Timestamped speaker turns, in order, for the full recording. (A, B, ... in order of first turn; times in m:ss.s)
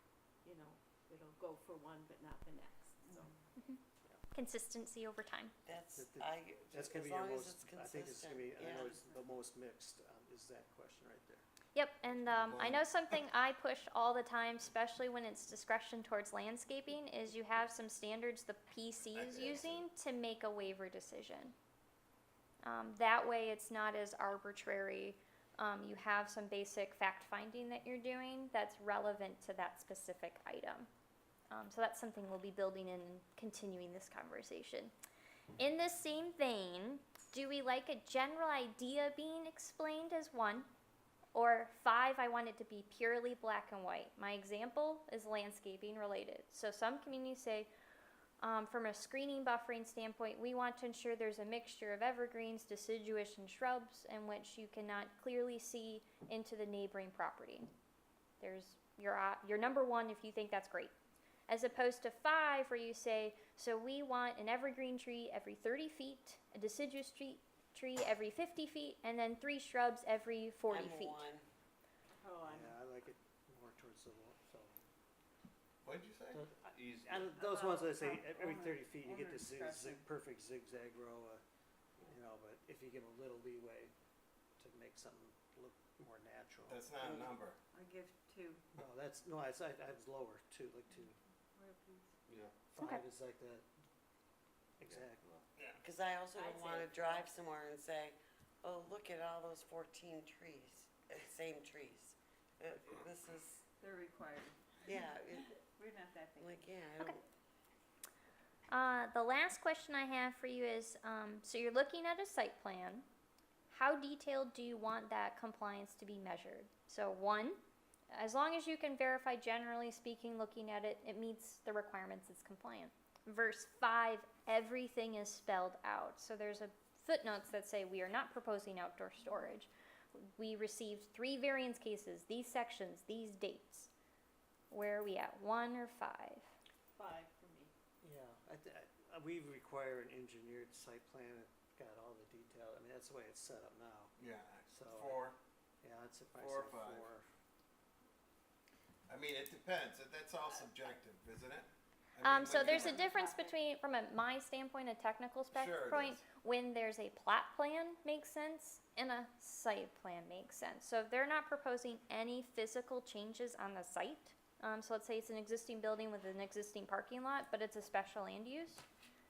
0:00.4-0:03.3 A
0:04.3-0:05.5 B
0:05.7-0:08.9 C
0:06.0-0:11.4 D
0:11.7-0:21.6 B
0:12.4-0:12.9 E
0:19.1-0:19.9 E
0:22.6-0:30.9 B
0:31.5-0:34.9 B
0:35.6-0:40.7 B
0:41.4-0:47.7 B
0:48.4-0:57.7 B
0:58.4-1:00.9 B
1:01.5-1:11.3 B
1:10.7-1:11.5 C
1:12.2-1:12.8 A
1:12.4-1:14.8 D
1:15.8-1:17.3 E
1:16.3-1:21.4 D
1:17.3-1:20.0 F
1:22.1-1:23.9 D
1:24.6-1:26.8 D
1:26.7-1:27.6 E
1:27.0-1:27.3 C
1:27.7-1:28.6 F
1:28.8-1:31.2 D
1:31.6-1:32.1 F
1:32.3-1:32.5 E
1:32.7-1:33.6 D
1:32.8-1:33.0 B
1:34.8-1:35.2 D
1:35.3-1:35.8 E
1:35.8-1:43.6 C
1:36.4-1:37.2 A
1:43.8-1:46.7 F
1:44.8-1:45.5 C
1:46.4-1:47.2 C
1:48.7-1:53.1 B
1:53.7-1:57.6 B
1:58.1-2:13.9 B
2:14.7-2:16.5 B
2:17.0-2:17.7 A
2:18.0-2:24.1 D
2:24.2-2:25.4 E
2:24.7-2:25.2 D
2:25.8-2:27.3 D
2:26.4-2:27.1 E
2:29.1-2:33.1 E
2:32.2-2:48.8 B
2:32.6-2:33.5 F
2:35.5-2:36.2 E